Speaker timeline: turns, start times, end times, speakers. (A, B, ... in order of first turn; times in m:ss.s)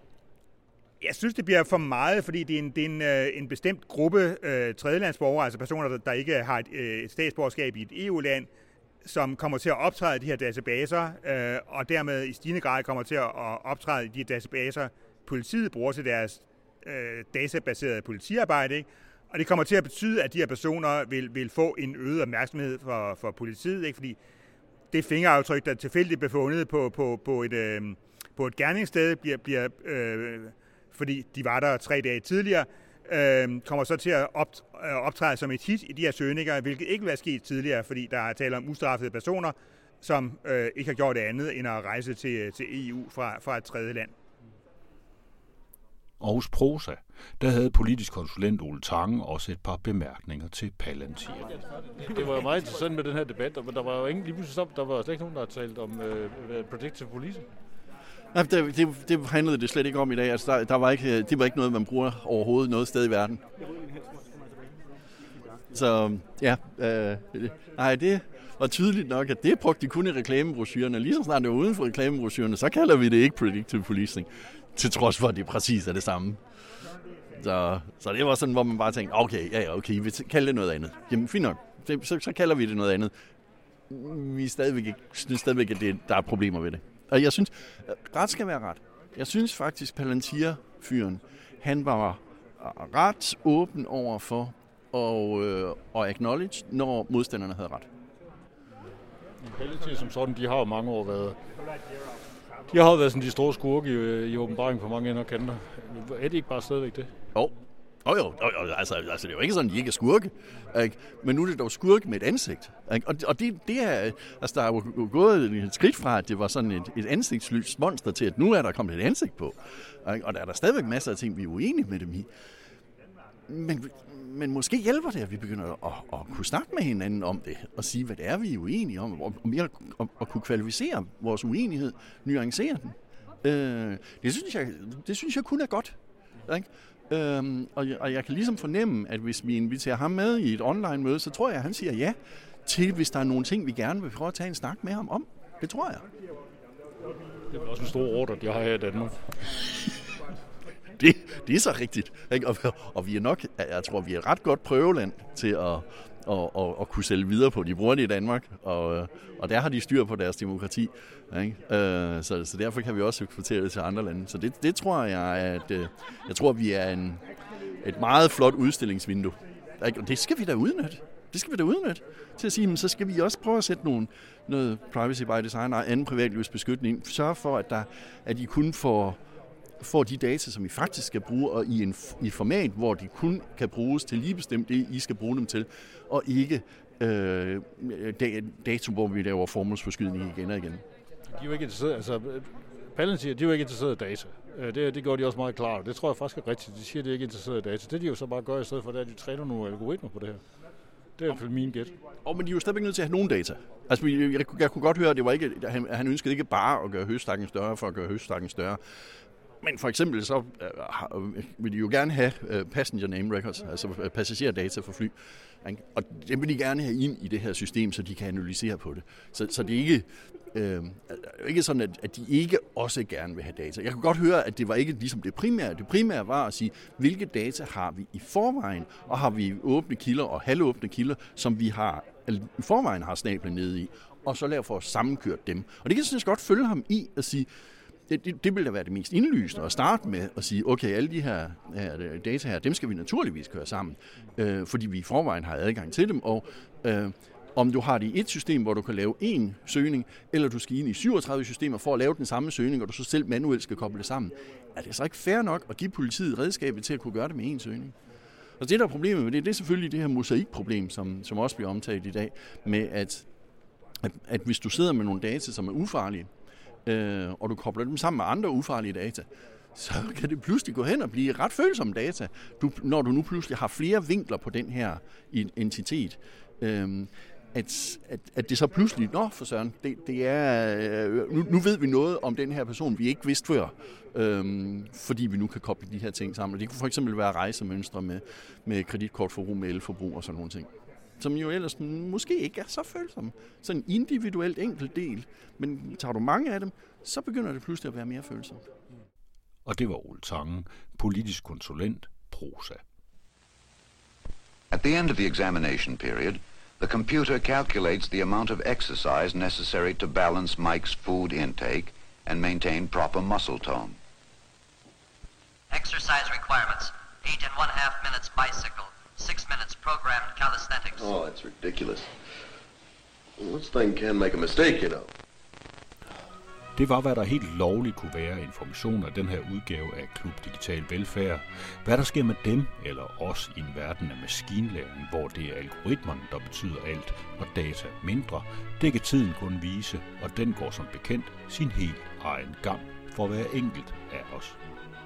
0:01.0-0:08.5 A
0:09.0-0:24.2 A
0:24.9-0:44.1 A
0:46.2-0:51.5 B
0:52.0-0:57.5 C
0:58.3-1:03.4 D
1:05.7-1:16.4 D
1:17.3-1:23.1 D
1:23.9-1:37.9 D
1:39.4-1:41.4 C
1:42.7-1:47.1 C
1:47.4-2:02.3 D
2:03.5-2:26.1 D
2:27.5-2:29.3 C
2:31.0-2:47.2 D
2:47.8-2:59.2 D
2:59.8-3:10.8 D
3:11.3-3:20.4 C
3:21.2-3:21.9 C
3:22.2-3:28.8 D
3:29.6-3:57.5 D
3:58.1-4:18.0 D
4:18.6-4:23.3 D
4:24.0-4:26.3 D
4:26.8-4:58.6 D
4:59.7-5:02.8 B
5:04.7-5:14.0 E
5:15.7-5:21.1 F
5:21.0-5:22.1 G
5:23.4-5:25.1 G
5:26.8-5:44.6 B